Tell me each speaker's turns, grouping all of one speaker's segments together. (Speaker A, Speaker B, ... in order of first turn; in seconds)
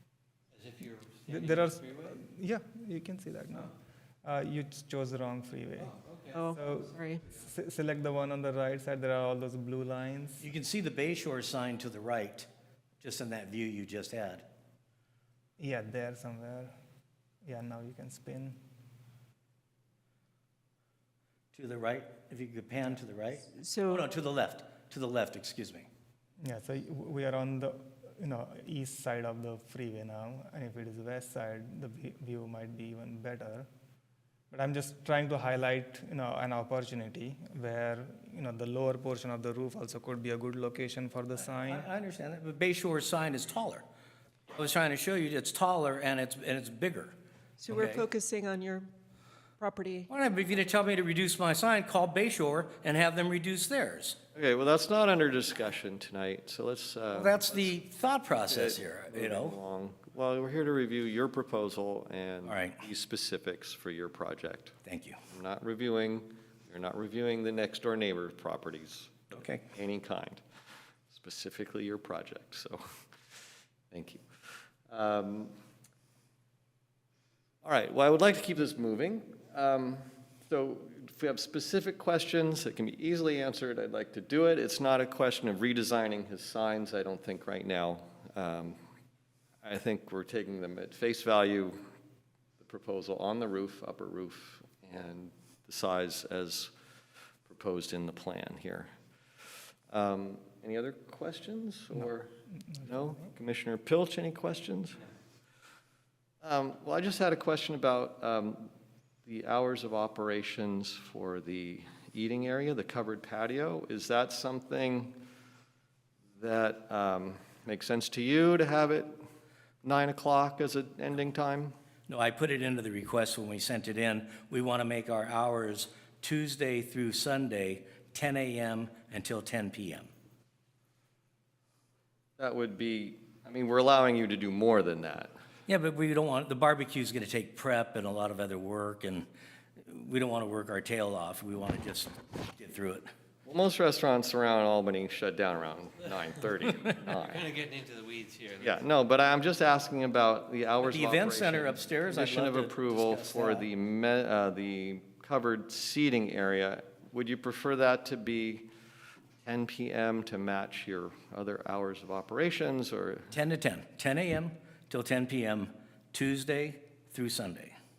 Speaker A: 0.5-2.2, 5.9-6.4, 147.2-148.7
Speaker B: 1.3-3.7, 4.2-6.0, 6.5-10.5, 15.6-16.7, 17.4-18.6, 26.4-33.7, 34.5-41.9, 102.7-103.3
Speaker C: 6.3-7.2, 23.5-24.1, 47.6-48.9, 49.6-50.1
Speaker D: 10.4-12.5, 13.0-14.4, 21.5-25.9, 41.4-43.8, 44.5-47.1, 47.7-48.0, 50.1-54.2, 57.1-59.5, 62.5-62.8, 64.8-65.2, 69.3-69.6, 122.1-130.1, 135.7-139.3, 139.8-143.1, 150.8-153.7, 163.3-167.8
Speaker E: 54.3-57.7, 58.3-64.8, 65.3-69.1, 69.7-70.4, 71.1-72.8, 73.9-74.2, 74.9-75.5, 77.6-88.8, 89.6-91.8, 92.6-96.7, 97.5-98.9, 99.9-102.3, 102.8-105.0, 106.4-108.7, 109.2-115.2, 116.3-119.2, 119.8-121.7, 132.4-135.3, 143.4-147.5, 148.6-158.7, 159.4-163.3